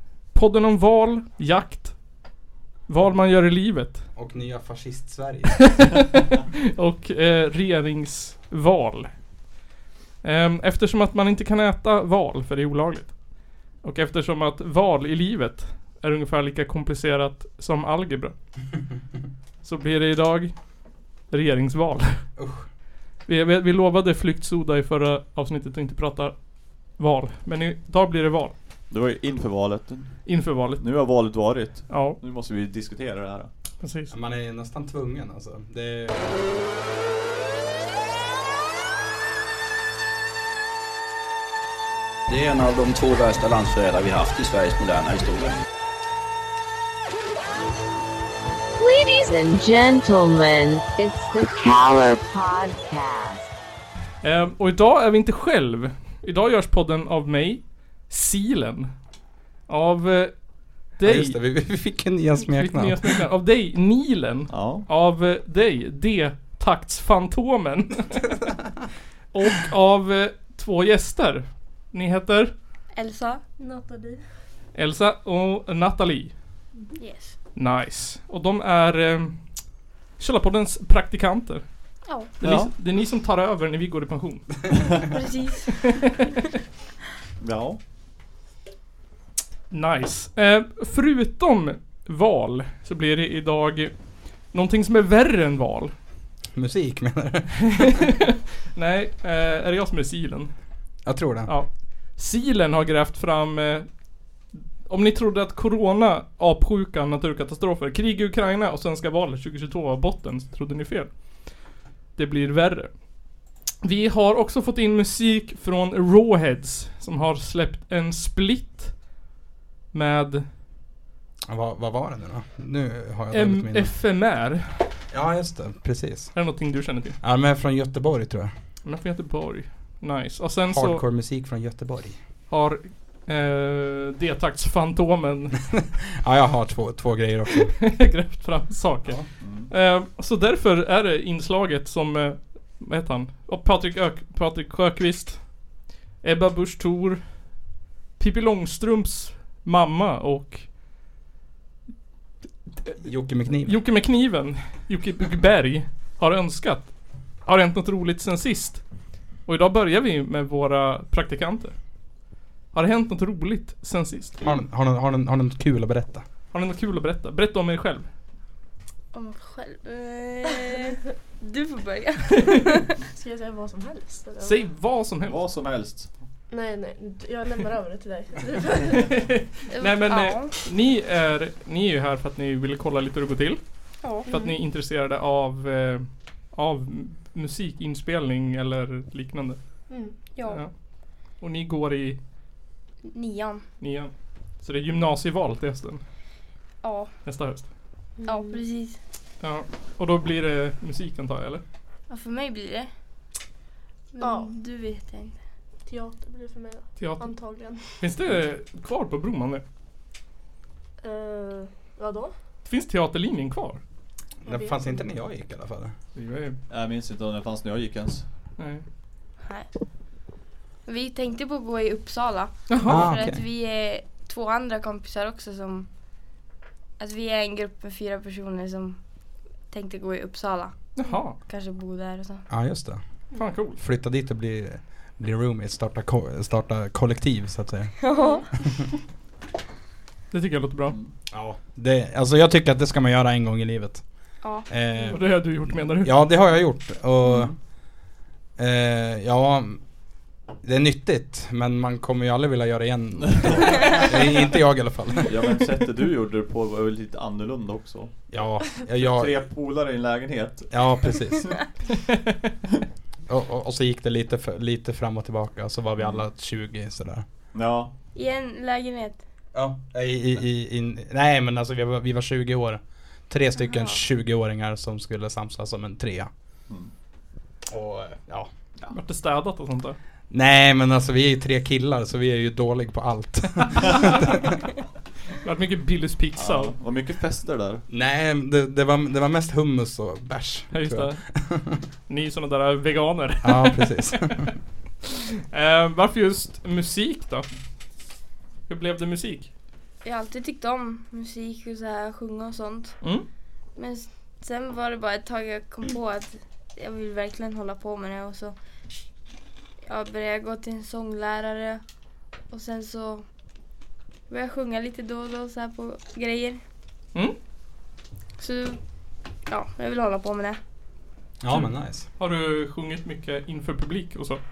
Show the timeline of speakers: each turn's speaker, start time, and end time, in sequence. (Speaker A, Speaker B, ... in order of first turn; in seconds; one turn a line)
Speaker A: 0.3-2.0
Speaker A: 2.9-4.1
Speaker B: 4.2-5.8
Speaker A: 5.7-9.1
Speaker A: 10.2-18.3
Speaker A: 19.6-20.7
Speaker A: 21.3-22.2
Speaker B: 22.4-22.7
Speaker A: 23.3-28.6
Speaker C: 28.9-33.5
Speaker A: 30.3-30.9
Speaker A: 31.9-32.2
Speaker A: 33.8-34.1
Speaker B: 34.1-36.3
Speaker D: 42.3-45.6
Speaker E: 48.8-53.5
Speaker A: 54.2-58.9
Speaker A: 59.7-61.4
Speaker B: 61.0-63.2
Speaker A: 62.6-68.3
Speaker C: 64.5-64.8
Speaker A: 69.3-72.5
Speaker F: 73.0-73.4
Speaker G: 73.6-74.2
Speaker A: 74.8-76.3
Speaker F: 77.0-77.4
Speaker A: 77.5-79.5
Speaker A: 80.2-81.7
Speaker F: 82.1-82.3
Speaker A: 82.4-84.8
Speaker C: 82.4-82.7
Speaker F: 85.0-86.3
Speaker C: 87.4-87.8
Speaker A: 89.7-95.9
Speaker B: 96.5-98.0
Speaker A: 97.8-100.5
Speaker B: 101.0-101.6
Speaker A: 101.5-111.6
Speaker A: 112.2-112.9
Speaker A: 113.8-119.1
Speaker A: 119.9-120.5
Speaker B: 121.5-123.9
Speaker A: 123.3-124.9
Speaker B: 125.1-126.3
Speaker A: 126.3-127.2
Speaker B: 127.2-128.5
Speaker A: 128.8-131.0
Speaker B: 130.7-132.2
Speaker A: 132.5-135.6
Speaker B: 136.2-137.8
Speaker A: 137.8-147.6
Speaker C: 139.4-139.7
Speaker A: 148.2-150.7
Speaker B: 153.0-153.8
Speaker A: 153.5-158.8
Speaker A: 159.4-161.8
Speaker A: 162.7-164.4
Speaker B: 164.4-166.2
Speaker A: 166.5-168.1
Speaker F: 169.1-173.0
Speaker G: 173.1-174.7
Speaker A: 174.4-175.4
Speaker C: 175.3-176.2
Speaker G: 176.5-179.2
Speaker A: 179.0-183.6
Speaker F: 179.7-180.6
Speaker F: 184.0-184.3
Speaker A: 184.2-189.6
Speaker G: 184.3-184.6
Speaker G: 189.9-190.2
Speaker F: 190.3-190.6
Speaker A: 190.4-190.7
Speaker A: 191.4-192.2
Speaker F: 193.0-193.6
Speaker A: 193.8-196.0
Speaker F: 196.8-197.1
Speaker A: 197.3-197.7
Speaker G: 198.2-198.6
Speaker F: 198.2-199.0
Speaker A: 199.4-201.6
Speaker F: 202.1-202.9
Speaker F: 204.1-205.4
Speaker G: 204.2-204.5
Speaker G: 205.8-207.9
Speaker A: 207.0-207.3
Speaker A: 207.8-209.6
Speaker G: 211.0-212.3
Speaker A: 212.7-213.8
Speaker B: 214.4-215.9
Speaker G: 214.5-215.0
Speaker A: 216.2-216.6
Speaker C: 216.7-218.3
Speaker A: 218.6-218.8
Speaker F: 219.4-219.7
Speaker F: 220.9-225.9
Speaker A: 222.7-223.1
Speaker B: 222.9-223.4
Speaker F: 227.0-229.0
Speaker F: 229.7-232.5
Speaker A: 231.0-231.4
Speaker B: 232.5-233.0
Speaker A: 233.4-233.8
Speaker B: 233.8-237.9
Speaker F: 238.0-238.5
Speaker A: 240.3-241.0
Speaker B: 241.3-247.7
Speaker F: 244.4-244.7
Speaker A: 245.1-246.1
Speaker B: 248.6-249.8
Speaker B: 250.6-255.6
Speaker C: 253.3-253.6
Speaker C: 255.3-258.3
Speaker B: 258.3-259.4
Speaker C: 258.8-261.5
Speaker B: 260.7-261.6
Speaker B: 263.3-267.2
Speaker C: 267.5-267.9
Speaker F: 268.1-269.2
Speaker B: 269.5-276.3
Speaker F: 273.6-274.0
Speaker B: 277.7-278.5
Speaker A: 278.9-280.0
Speaker B: 280.3-284.5
Speaker A: 283.8-284.2
Speaker A: 285.4-286.8
Speaker C: 286.4-287.8
Speaker B: 287.9-291.8
Speaker A: 290.7-291.2
Speaker A: 292.1-294.3
Speaker B: 293.4-294.5
Speaker A: 295.5-297.5
Speaker A: 298.7-299.5
Speaker F: 300.0-303.2
Speaker F: 303.8-308.6
Speaker F: 309.9-311.8
Speaker F: 312.5-313.2
Speaker F: 314.3-316.6
Speaker F: 318.4-320.6
Speaker B: 321.4-322.1
Speaker A: 321.5-324.4